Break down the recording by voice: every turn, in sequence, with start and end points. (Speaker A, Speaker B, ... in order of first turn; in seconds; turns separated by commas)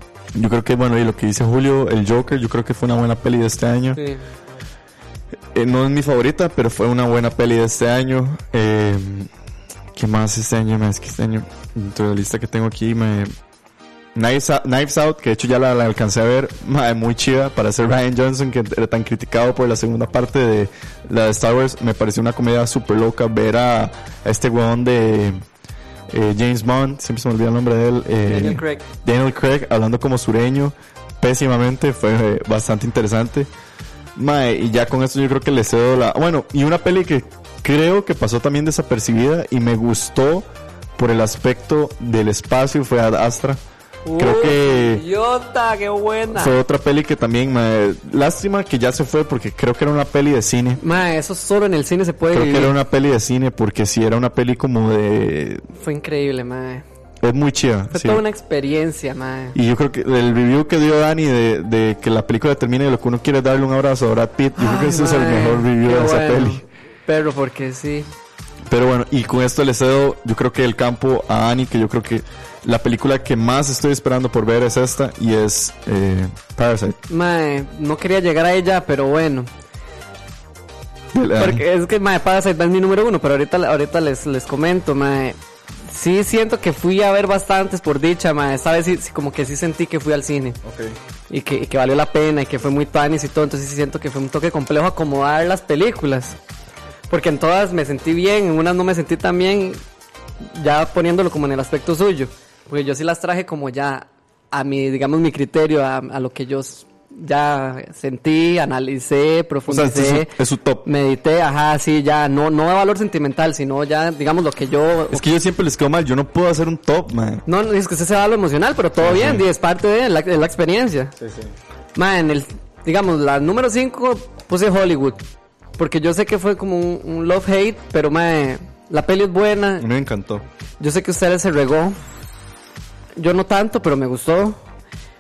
Speaker A: 0.3-4.0, Speaker B: 4.0-4.2, Speaker A: 5.5-9.3, Speaker A: 9.9-13.3, Speaker A: 14.2-25.4, Speaker A: 26.1-33.5, Speaker B: 28.2-28.9, Speaker A: 34.2-43.6, Speaker B: 44.0-46.5, Speaker A: 44.2-45.0, Speaker A: 46.4-50.8, Speaker B: 50.8-52.7, Speaker A: 52.3-55.6, Speaker B: 55.8-56.8, Speaker A: 57.2-58.2, Speaker B: 57.9-59.6, Speaker A: 59.5-66.6, Speaker B: 64.6-68.1, Speaker A: 68.7-77.0, Speaker B: 77.1-79.5, Speaker A: 81.1-81.6, Speaker B: 81.4-90.6, Speaker A: 90.6-91.0, Speaker B: 91.3-96.4, Speaker B: 97.1-99.8, Speaker B: 100.4-115.2, Speaker A: 109.7-110.8, Speaker A: 115.1-117.4, Speaker B: 117.5-121.2, Speaker A: 119.0-119.5, Speaker A: 121.2-121.5, Speaker B: 122.0-125.2, Speaker B: 125.8-129.9, Speaker A: 129.8-130.4, Speaker B: 130.8-132.0, Speaker B: 133.2-134.6